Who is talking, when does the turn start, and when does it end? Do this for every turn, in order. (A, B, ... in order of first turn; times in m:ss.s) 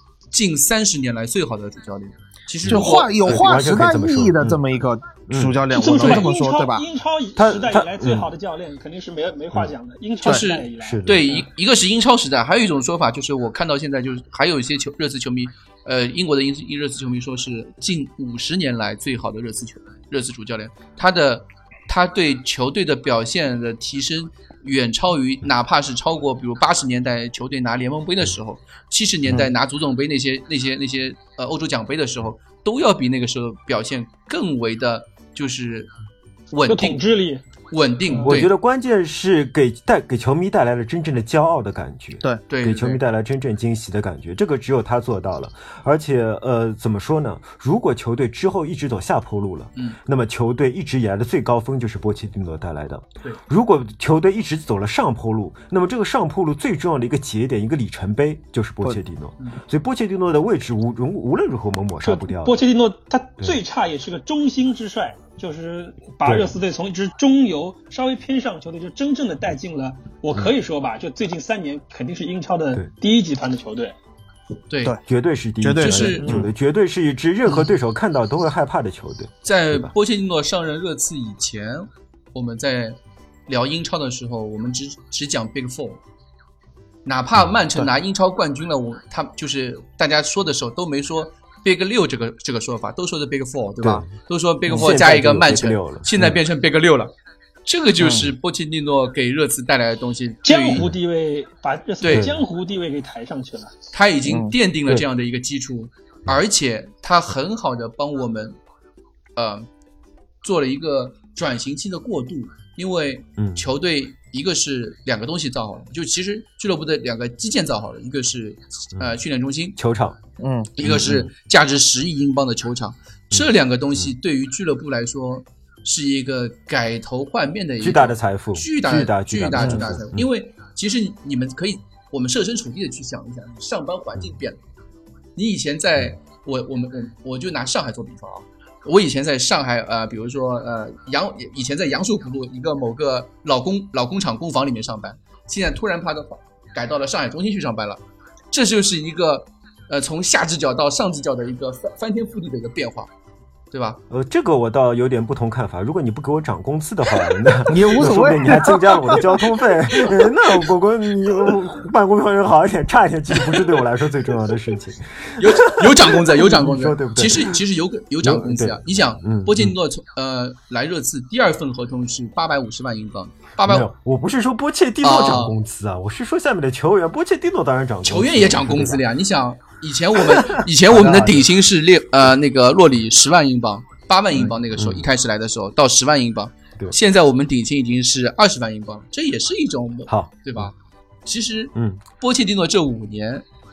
0:00.3-0:03.3 A
0:02.6-0:04.6 B
0:02.7-0:06.8 C
0:05.3-0:05.6 B
0:05.7-0:11.4 D
0:07.4-0:08.3 B
0:10.2-0:35.9 A
0:10.8-0:11.4 B
0:36.5-0:37.0 A
0:36.7-0:37.4 D
0:37.7-0:38.5 A
0:38.2-1:02.6 B
0:42.5-0:43.0 A
1:02.0-1:13.9 D
1:06.2-1:06.6 B
1:14.7-1:15.0 A
1:15.0-1:19.9 B
1:15.6-1:16.5 C
1:15.8-1:16.3 A
1:19.4-1:26.0 A
1:27.0-1:37.1 A
1:33.8-1:34.1 B
1:34.7-1:36.4 B
1:37.6-1:40.9 A
1:38.0-1:38.3 C
1:40.4-1:43.7 D
1:42.0-1:42.3 A
1:42.1-1:42.4 B
1:43.9-1:48.6 A
1:44.3-1:44.5 C
1:49.4-1:49.7 A
1:50.4-1:59.8 A
1:53.4-1:53.6 B
1:59.8-2:00.2 B
2:00.4-2:00.7 C
2:00.8-2:14.6 A
2:00.8-2:01.3 B
2:07.8-2:10.2 B
2:15.4-2:33.1 A
2:33.7-2:34.0 A
2:34.1-2:47.6 B
2:37.6-2:39.4 C
2:45.4-2:53.9 A
2:48.2-2:49.7 B
2:53.6-2:59.0 B
2:55.0-2:55.6 A
2:58.0-3:13.4 A
3:00.2-3:01.5 B
3:04.4-3:05.1 B
3:10.1-3:10.7 B
3:11.7-3:12.0 B